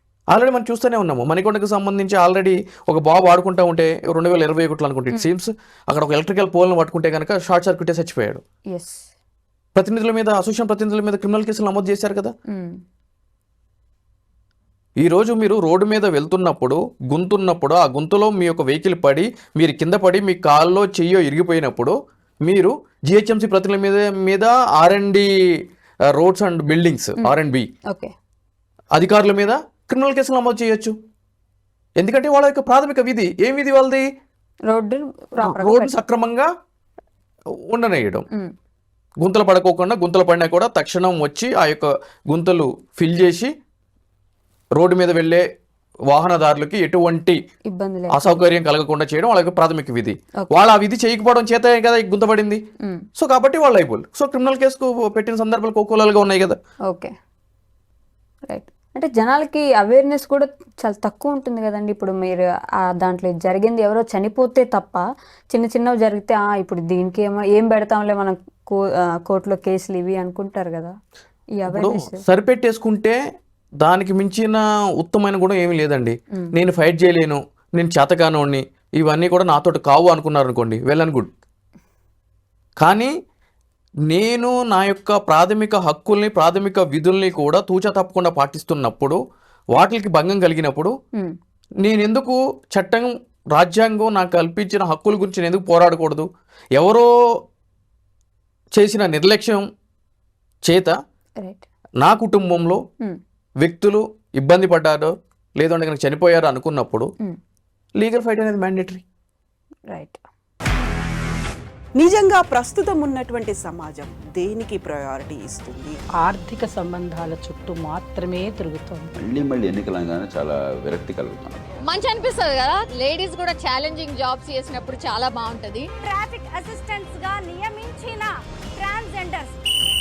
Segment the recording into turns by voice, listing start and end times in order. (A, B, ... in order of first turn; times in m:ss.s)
0:00.3-0:08.4 A
0:08.7-0:09.1 B
0:09.7-0:12.3 A
0:12.5-0:12.8 B
0:15.0-0:25.3 A
0:26.1-0:27.7 A
0:28.9-0:31.0 A
0:32.0-0:34.0 A
0:34.7-0:35.9 B
0:35.4-0:36.5 A
0:37.6-0:38.3 A
0:39.2-0:43.5 A
0:44.7-0:45.4 A
0:46.1-0:47.4 A
0:47.7-0:48.4 B
0:48.1-0:52.6 A
0:53.2-0:56.6 A
0:58.5-1:10.9 B
1:11.6-1:12.2 B
1:11.7-1:13.2 A
1:13.8-1:21.3 A
1:22.8-1:23.1 A
1:24.1-1:29.2 A
1:29.7-1:30.9 A
1:31.8-1:37.1 A
1:38.7-1:39.6 A
1:40.6-1:40.9 A
1:42.0-1:42.8 A
1:43.6-1:47.1 A
1:48.0-1:49.0 A
1:49.9-1:50.2 B
1:52.0-1:56.0 C
1:56.2-1:59.1 D
1:59.2-2:01.6 E
2:01.9-2:05.9 F
2:06.0-2:09.6 G